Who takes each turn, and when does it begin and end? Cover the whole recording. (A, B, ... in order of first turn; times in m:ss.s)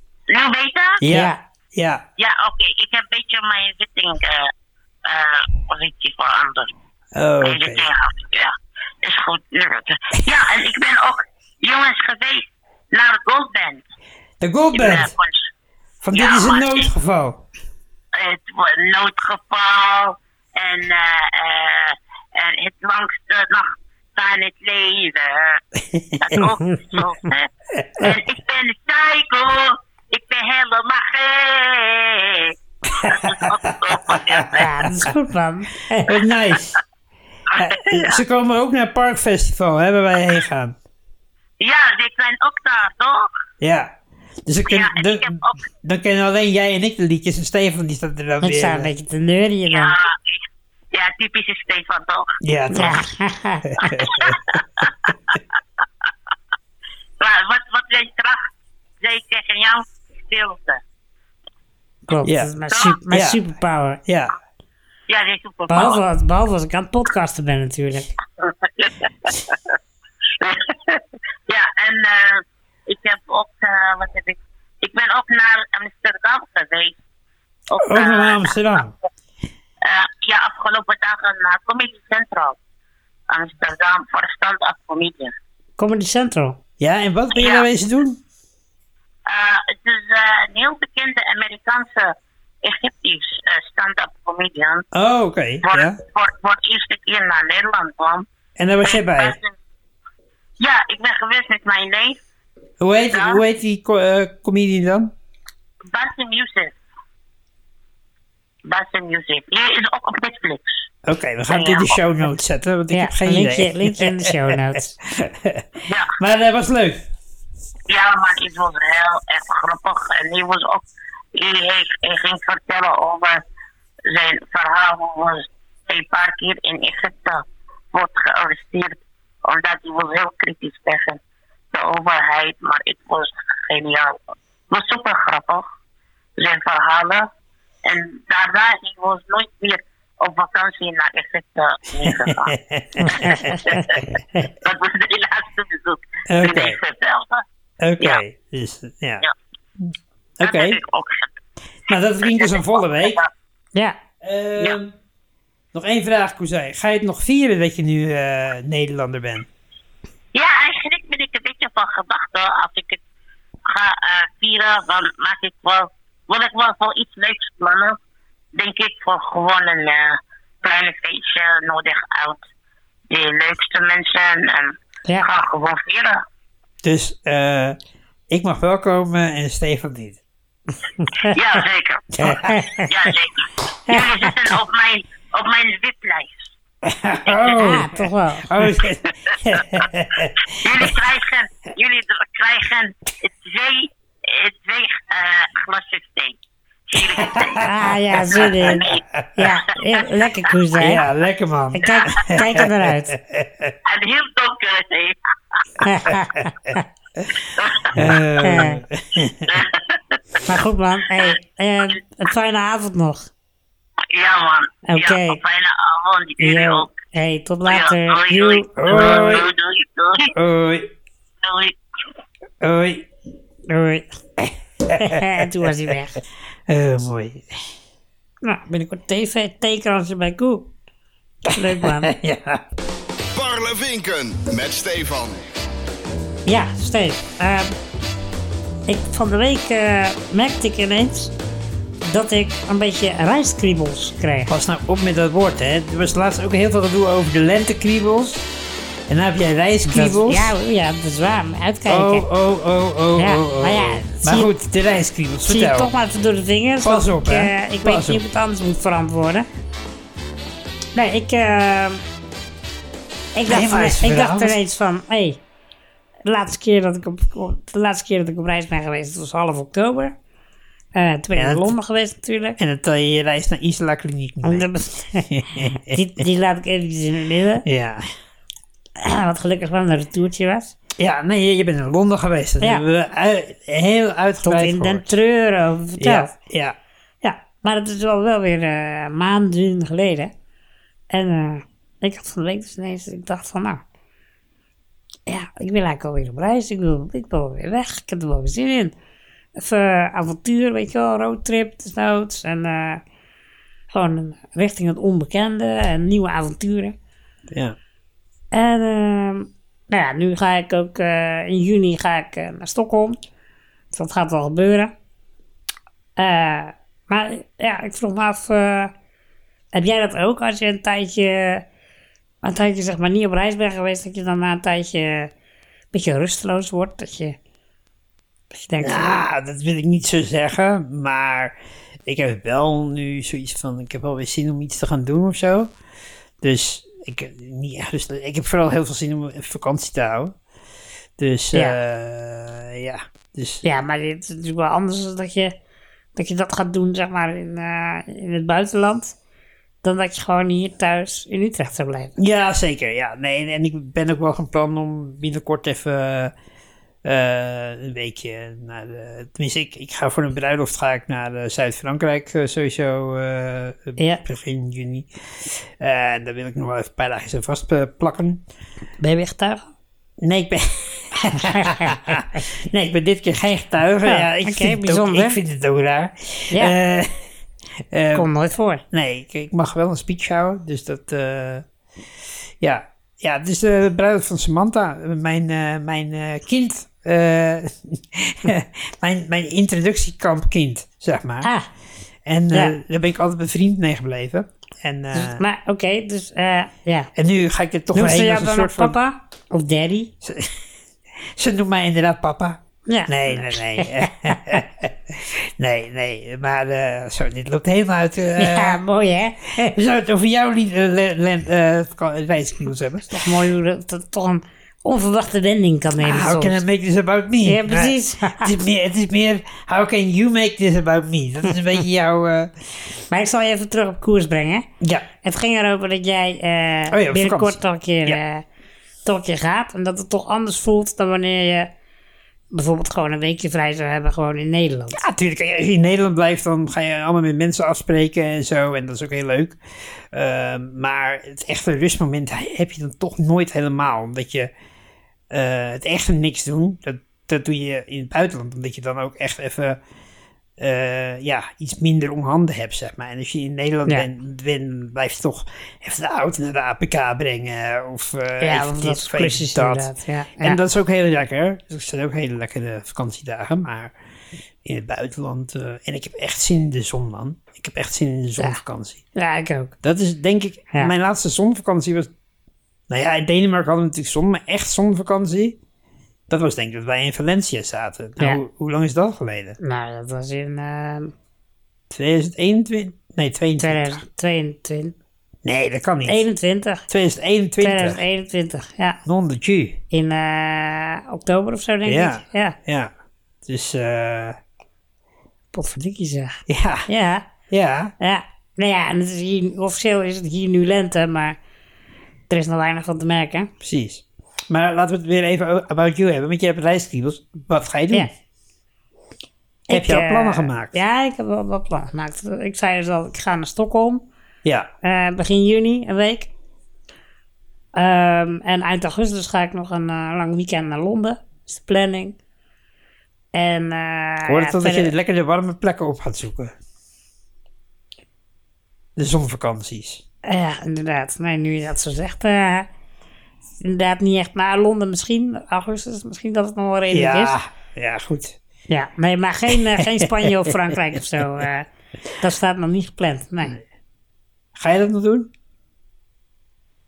0:00.3-0:01.0 A
0:01.0-0:02.0 B
0:01.1-0:01.4 C
0:02.2-0:04.5 A
0:05.0-0:06.7 A
0:07.1-0:07.9 B
0:07.4-0:13.8 A
0:14.4-0:15.1 B
0:14.7-0:15.5 A
0:16.0-0:17.4 B
0:16.1-0:16.9 A
0:18.1-0:25.6 A
0:25.9-0:26.5 B
0:26.2-0:34.6 A
0:27.8-0:28.1 B
0:33.0-0:35.1 B
0:34.5-0:36.1 C
0:36.1-0:36.8 B
0:37.5-0:38.2 A
0:37.6-0:40.8 B
0:41.6-0:43.3 A
0:43.6-0:43.9 B
0:44.5-0:48.9 B
0:44.6-0:45.6 A
0:48.4-0:49.9 C
0:49.7-0:52.3 A
0:52.4-0:53.0 B
0:52.7-0:53.7 C
0:53.6-0:55.1 B
0:54.0-0:55.1 A
0:57.2-0:58.5 A
0:59.0-1:00.8 A
1:02.1-1:04.0 C
1:02.2-1:02.5 B
1:02.7-1:03.0 A
1:03.1-1:03.4 B
1:04.1-1:04.4 B
1:05.1-1:06.0 A
1:05.7-1:08.1 C
1:08.4-1:09.7 A
1:10.4-1:17.0 A
1:17.7-1:18.8 A
1:17.8-1:18.9 B
1:19.8-1:22.6 A
1:23.3-1:25.3 A
1:25.8-1:26.6 C
1:26.8-1:28.2 B
1:27.4-1:27.6 A
1:29.3-1:34.8 A
1:34.9-1:36.0 B
1:35.6-1:38.2 A
1:38.6-1:39.4 B
1:38.8-1:39.5 A
1:40.6-1:42.2 A
1:42.8-1:45.1 B
1:43.1-1:43.4 A
1:45.9-1:46.8 A
1:48.6-1:50.8 A
1:51.1-1:57.0 B
1:51.5-1:52.0 A
1:52.9-1:55.0 C
1:55.9-1:56.1 A
1:57.9-2:00.8 A
2:01.4-2:03.4 A
2:04.1-2:11.2 A
2:11.7-2:14.2 A
2:14.7-2:15.6 A
2:16.4-2:17.3 A
2:17.8-2:22.5 A
2:22.0-2:23.7 B
2:23.1-2:23.8 C
2:23.1-2:27.4 A
2:26.3-2:26.8 B
2:27.8-2:29.2 B
2:29.8-2:30.8 B
2:30.4-2:31.3 A
2:31.9-2:33.2 B
2:32.2-2:33.3 A
2:34.2-2:35.0 B
2:35.7-2:39.5 B
2:40.3-2:43.0 A
2:43.6-2:48.0 A
2:48.5-2:52.4 A
2:53.1-2:56.2 A
2:56.8-2:57.8 B
2:58.3-3:00.2 B
3:01.0-3:01.4 C
3:01.3-3:02.3 A
3:02.2-3:02.5 B
3:02.2-3:02.9 C
3:02.8-3:06.5 A
3:06.8-3:10.9 B
3:07.5-3:08.5 C
3:10.5-3:16.4 A
3:16.9-3:17.7 A
3:17.0-3:19.2 B
3:17.6-3:18.8 C
3:18.3-3:19.5 A
3:19.4-3:21.0 C
3:20.8-3:23.8 B
3:21.7-3:23.1 C
3:23.9-3:25.6 A
3:25.8-3:26.8 C
3:27.5-3:28.0 A
3:27.9-3:29.6 B
3:28.4-3:28.8 C
3:29.5-3:30.2 A
3:30.4-3:33.3 C
3:34.1-3:36.9 A
3:34.9-3:35.4 C
3:36.4-3:39.1 C
3:37.6-3:40.4 A
3:38.8-3:39.5 B
3:40.3-3:40.9 B
3:41.4-3:41.8 A
3:42.6-3:43.1 B
3:43.7-3:44.1 C
3:44.4-3:45.5 B
3:45.0-3:46.2 C
3:46.7-3:47.5 B
3:48.4-3:50.7 C
3:51.5-3:52.6 B
3:51.5-3:52.1 C
3:53.4-3:55.4 D
3:56.5-3:57.7 C
3:58.9-4:01.3 C
4:02.0-4:04.5 C
4:04.5-4:08.5 B
4:09.1-4:10.5 B
4:09.9-4:12.3 C
4:11.9-4:15.9 B
4:13.2-4:14.5 C
4:15.5-4:19.5 C
4:16.8-4:18.2 B
4:21.0-4:22.0 C
4:23.4-4:25.4 C
4:23.5-4:24.6 B
4:26.2-4:30.1 C
4:31.0-4:32.6 C
4:31.4-4:31.7 B
4:32.6-4:34.7 B
4:34.4-4:37.6 C
4:35.3-4:36.0 B
4:37.6-4:38.0 B
4:39.0-4:40.7 C
4:41.0-4:45.1 B
4:44.4-4:46.3 C
4:46.0-4:46.8 B
4:47.2-4:50.3 C
4:51.1-4:53.8 C
4:55.3-4:58.9 C
4:59.6-5:03.0 C
5:03.9-5:07.0 C
5:07.5-5:07.8 B
5:08.5-5:13.2 C
5:13.9-5:14.9 C
5:16.2-5:18.9 C
5:19.7-5:21.6 C
5:22.4-5:25.3 C
5:25.9-5:27.4 C
5:28.5-5:29.2 C
5:28.8-5:35.7 B
5:36.4-5:40.4 B
5:41.2-5:43.6 B
5:43.6-5:45.5 C
5:46.2-5:49.1 C
5:49.8-5:52.1 C
5:52.2-5:56.3 B
5:57.0-6:08.4 B
6:09.0-6:09.7 C
6:10.2-6:17.1 B
6:11.3-6:12.2 C
6:14.0-6:15.4 C
6:17.9-6:18.3 B
6:18.1-6:18.8 C
6:18.9-6:21.6 B
6:22.6-6:31.5 B
6:31.4-6:31.7 C
6:32.2-6:35.4 B
6:35.1-6:37.1 C
6:37.1-6:39.0 B
6:37.9-6:40.1 C
6:40.2-6:40.5 B
6:41.4-6:48.8 B
6:42.9-6:44.4 C
6:48.4-6:49.8 C
6:49.6-6:53.2 B
6:53.1-6:56.6 C
6:56.0-7:02.5 B
6:57.4-6:58.5 C
7:03.1-7:04.6 C
7:04.8-7:05.1 B
7:05.2-7:08.4 C
7:06.9-7:08.2 B
7:09.0-7:11.7 C
7:12.5-7:15.0 C
7:14.9-7:19.6 B
7:20.1-7:24.5 B
7:25.3-7:29.8 B
7:30.6-7:43.9 B
7:38.4-7:40.6 C
7:44.6-7:49.0 B
7:49.1-7:49.7 C
7:49.8-7:52.1 B
7:52.9-7:55.6 B
7:56.3-7:59.6 B
7:59.6-8:01.1 C
8:01.9-8:04.0 B
8:03.6-8:04.9 C
8:05.4-8:06.2 B
8:06.1-8:06.9 C
8:06.9-8:08.0 B
8:07.6-8:09.0 C
8:09.1-8:09.8 B
8:09.9-8:12.6 C
8:11.9-8:12.9 B
8:13.4-8:14.4 B
8:15.5-8:17.3 C
8:16.5-8:16.9 B
8:17.5-8:17.9 B
8:18.0-8:21.4 C
8:22.3-8:23.5 C
8:23.6-8:28.1 B
8:29.7-8:30.8 B
8:29.7-8:34.0 C
8:34.4-8:34.7 B
8:34.8-8:36.3 C
8:37.7-8:42.2 C
8:43.3-8:44.9 C
8:44.2-8:46.6 B
8:49.0-8:50.0 B
8:50.2-8:52.7 C
8:53.6-8:57.4 C
8:56.9-8:58.4 B
8:58.7-9:01.7 C
8:59.8-9:00.7 B
9:02.2-9:03.6 C
9:04.6-9:05.3 B